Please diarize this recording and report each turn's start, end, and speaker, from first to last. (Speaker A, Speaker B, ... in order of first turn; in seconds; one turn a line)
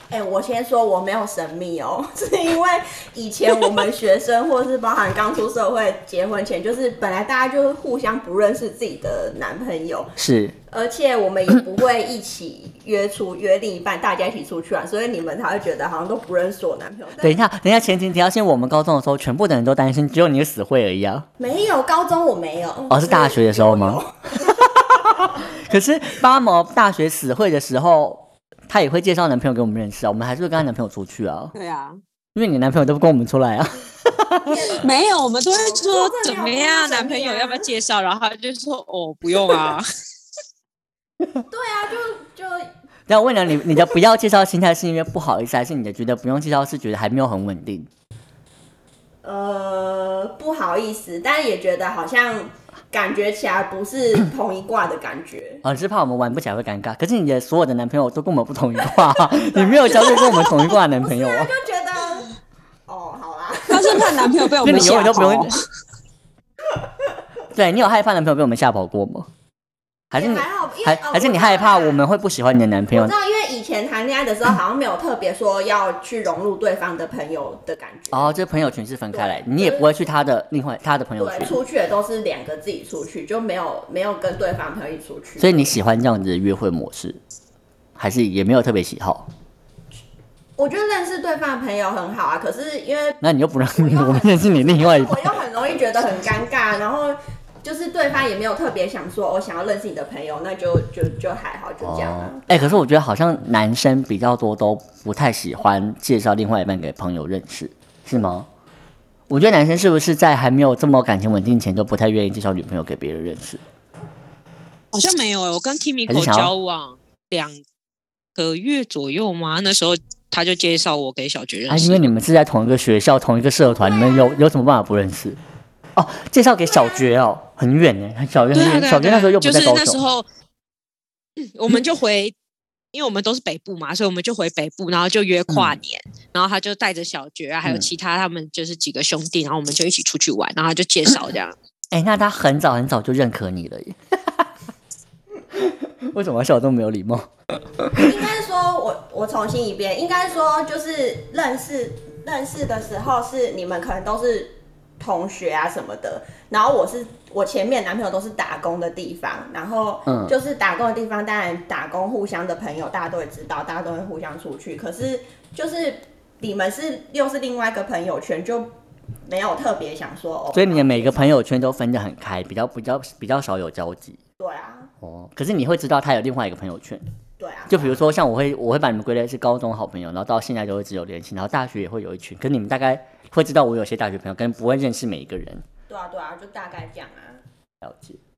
Speaker A: 0.1-10.1
Speaker B: 10.2-10.5
Speaker A: 10.7-17.4
Speaker B: 17.2-21.2
Speaker A: 21.4-24.6
Speaker B: 22.9-31.5
Speaker C: 31.5-32.0
Speaker B: 32.3-34.6
Speaker A: 34.5-34.8
Speaker C: 34.7-39.9
Speaker A: 35.5-37.7
Speaker A: 41.5-42.7
Speaker B: 43.1-47.9
Speaker A: 49.2-55.6
Speaker B: 55.6-61.5
Speaker A: 59.0-62.3
Speaker A: 62.9-64.4
Speaker C: 63.7-65.5
Speaker B: 64.6-65.5
Speaker B: 67.5-69.3
Speaker B: 70.1-73.1
Speaker A: 70.1-72.0
Speaker A: 72.9-78.4
Speaker B: 78.1-81.6
Speaker A: 79.1-80.0
Speaker A: 81.2-85.8
Speaker B: 85.4-87.2
Speaker B: 88.0-89.3
Speaker A: 90.6-93.2
Speaker B: 93.2-95.3
Speaker A: 93.8-102.6
Speaker B: 101.8-108.5
Speaker B: 109.3-113.6
Speaker C: 114.9-117.6
Speaker B: 116.1-116.5
Speaker C: 118.3-122.1
Speaker B: 121.7-125.4
Speaker A: 123.8-124.3
Speaker B: 126.0-130.0
Speaker C: 128.5-130.3
Speaker C: 131.4-132.3
Speaker C: 132.9-141.6
Speaker B: 135.5-135.8
Speaker B: 141.9-144.4
Speaker B: 145.5-148.0
Speaker A: 147.9-168.7
Speaker B: 160.1-160.3
Speaker A: 169.2-171.3
Speaker B: 170.5-174.2
Speaker A: 174.4-174.9
Speaker B: 175.0-177.0
Speaker A: 177.4-178.0
Speaker B: 177.7-185.6
Speaker A: 185.9-187.4
Speaker B: 187.8-188.2